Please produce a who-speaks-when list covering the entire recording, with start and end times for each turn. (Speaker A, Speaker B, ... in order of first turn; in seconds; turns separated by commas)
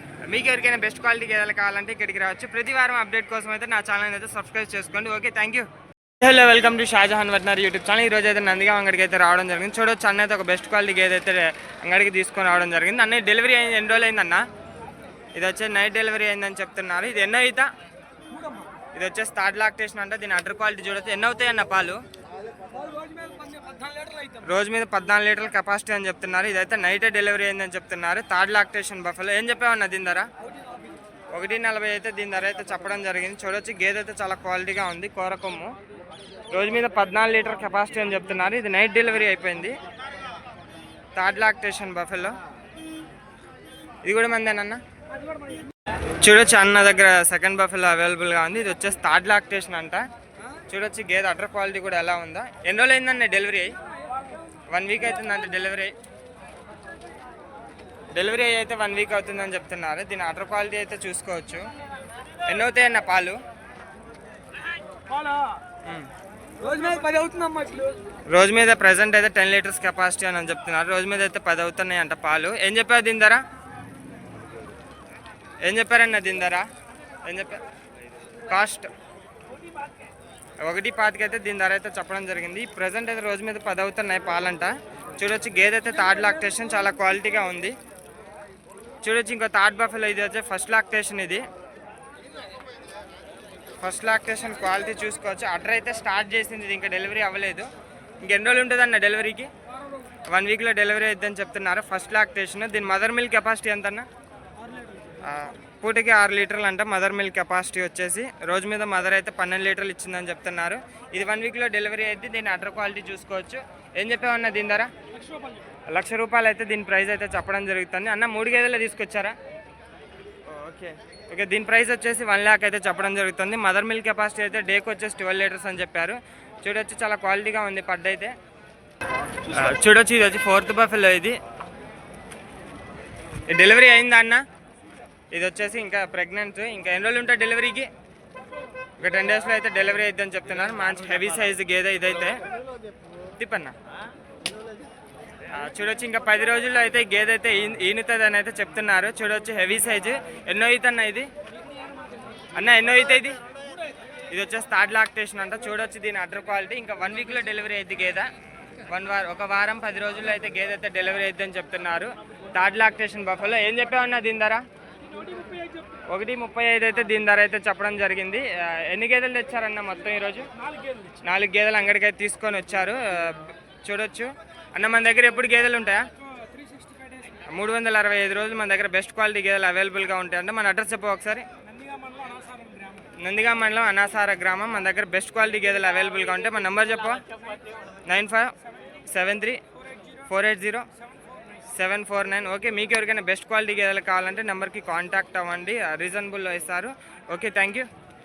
Speaker A: 0.2-5.7, Speaker A: 6.2-14.5, Speaker A: 15.3-17.7, Speaker A: 18.9-22.0, Speaker B: 23.0-24.1, Speaker A: 24.2-30.3, Speaker A: 31.3-35.7, Speaker A: 36.5-39.8, Speaker A: 41.1-42.4, Speaker A: 44.0-44.8, Speaker A: 46.2-50.0, Speaker A: 50.7-53.7, Speaker A: 54.7-55.9, Speaker A: 58.1-61.7, Speaker A: 62.5-63.4, Speaker B: 65.2-65.5, Speaker A: 65.8-66.1, Speaker B: 66.6-68.0, Speaker A: 68.3-73.4, Speaker A: 75.6-76.7, Speaker A: 77.2-77.6, Speaker A: 78.5-78.9, Speaker A: 80.6-87.8, Speaker A: 89.0-91.5, Speaker A: 93.8-97.7, Speaker A: 98.2-99.5, Speaker A: 100.2-104.1, Speaker A: 105.2-114.9, Speaker A: 115.9-119.3, Speaker A: 120.5-128.3, Speaker A: 129.4-131.4, Speaker A: 133.5-134.4, Speaker A: 135.3-137.9, Speaker A: 139.0-142.4, Speaker A: 143.4-143.8, Speaker A: 145.5-151.3, Speaker A: 152.5-153.4, Speaker A: 154.3-158.3, Speaker A: 158.9-164.6, Speaker A: 166.1-170.5, Speaker A: 171.1-176.1, Speaker A: 177.4-181.5, Speaker B: 182.1-182.3, Speaker A: 183.0-187.2, Speaker A: 188.1-189.6, Speaker A: 190.2-190.9, Speaker A: 191.6-197.9